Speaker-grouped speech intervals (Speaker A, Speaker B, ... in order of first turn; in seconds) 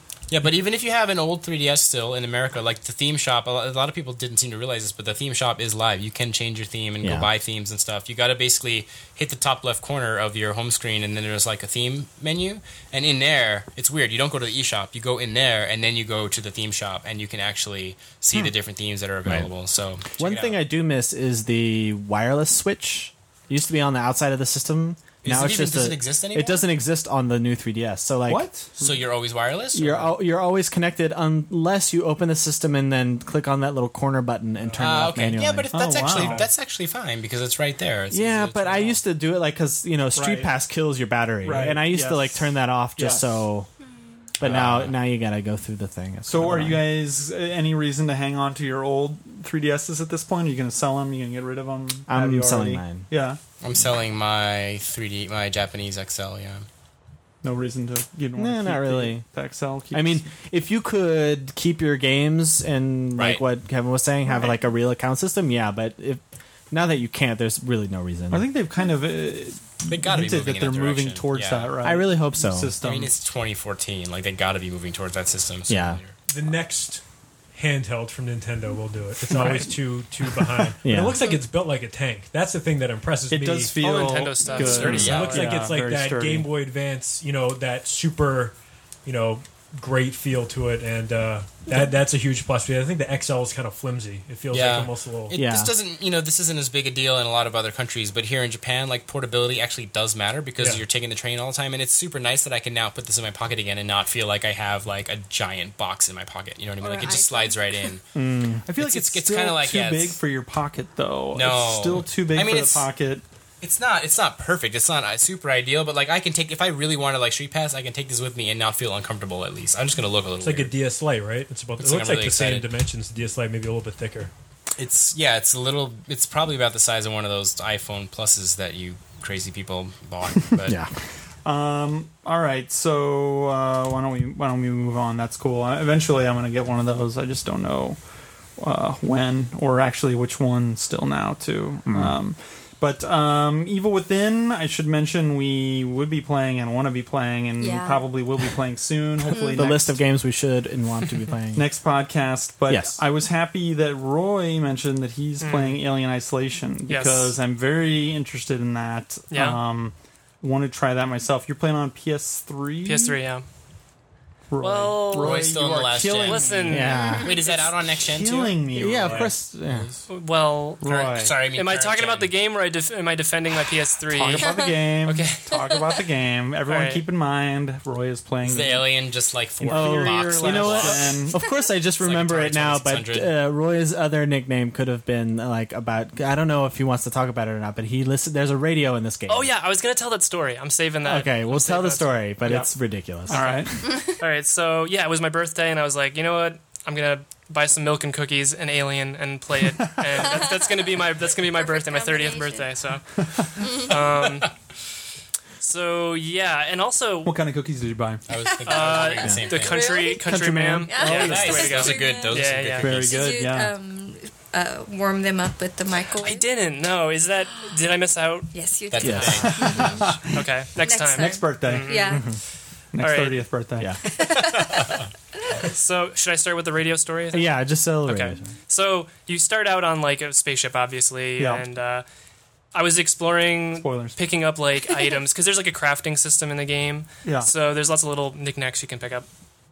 Speaker A: 0.3-20.6, 25.2-26.6, 28.8-30.1, 34.8-39.0, 44.4-45.0, 53.6-56.7, 63.2-63.4, 69.9-71.7, 72.8-76.2, 84.7-85.5, 94.5-108.0, 108.8-110.2, 111.3-112.9, 113.6-120.7, 121.8-122.7, 124.8-130.8, 165.1-166.5, 167.2-169.3, 170.9-172.3, 178.4-181.2, 182.0-183.3, 208.3-209.8, 211.0-213.2, 218.9-220.1, 224.6-225.0
Speaker B: 7.0-7.3, 20.2-28.5, 29.7-36.4, 38.1-43.7, 44.4-46.9, 52.1-53.1, 58.4-59.3, 59.9-68.5, 71.8-72.7, 75.7-76.0, 80.8-81.2, 95.3-95.7, 108.2-108.6, 130.6-130.9, 149.6-151.7, 152.7-153.0, 166.7-167.3, 168.7-169.9, 179.7-189.5, 191.1-193.6, 209.2-209.5, 210.2-211.5, 219.0-220.0, 227.3-228.5
Speaker C: 28.3-28.9, 35.7-36.5, 40.1-40.5, 41.4-43.4, 46.3-53.4, 57.4-60.3, 64.3-64.6, 68.3-73.1, 79.3-79.7, 80.5-81.1, 83.3-86.5, 108.7-113.2, 131.4-138.0, 138.6-150.0, 151.6-163.2, 164.5-169.3, 170.8-171.4, 174.1-178.9, 179.6-181.4, 192.4-192.8, 193.3-193.8, 207.3-208.2, 212.8-213.7, 219.4-220.3, 221.2-222.2, 222.9-224.0, 231.4-231.6, 233.8-234.2, 237.2-237.5
Speaker D: 76.3-83.8, 84.8-95.4, 120.4-124.3
Speaker E: 83.8-85.6, 155.4-155.8, 156.9-157.3, 159.3-159.6, 162.8-163.4, 164.6-165.6, 166.2-167.6, 170.1-175.6, 176.7-177.0, 189.3-192.3, 193.3-203.1, 203.6-204.5, 205.6-207.4, 208.6-213.0, 216.2-219.6, 220.3-222.4, 223.0-223.4, 225.6-232.1, 232.7-239.3
Speaker F: 106.8-107.9, 147.6-148.1, 149.3-149.6, 167.0-167.3, 201.5-202.7, 203.6-204.0, 209.4-210.3, 210.9-216.5, 218.5-220.0, 220.8-222.2, 224.1-224.8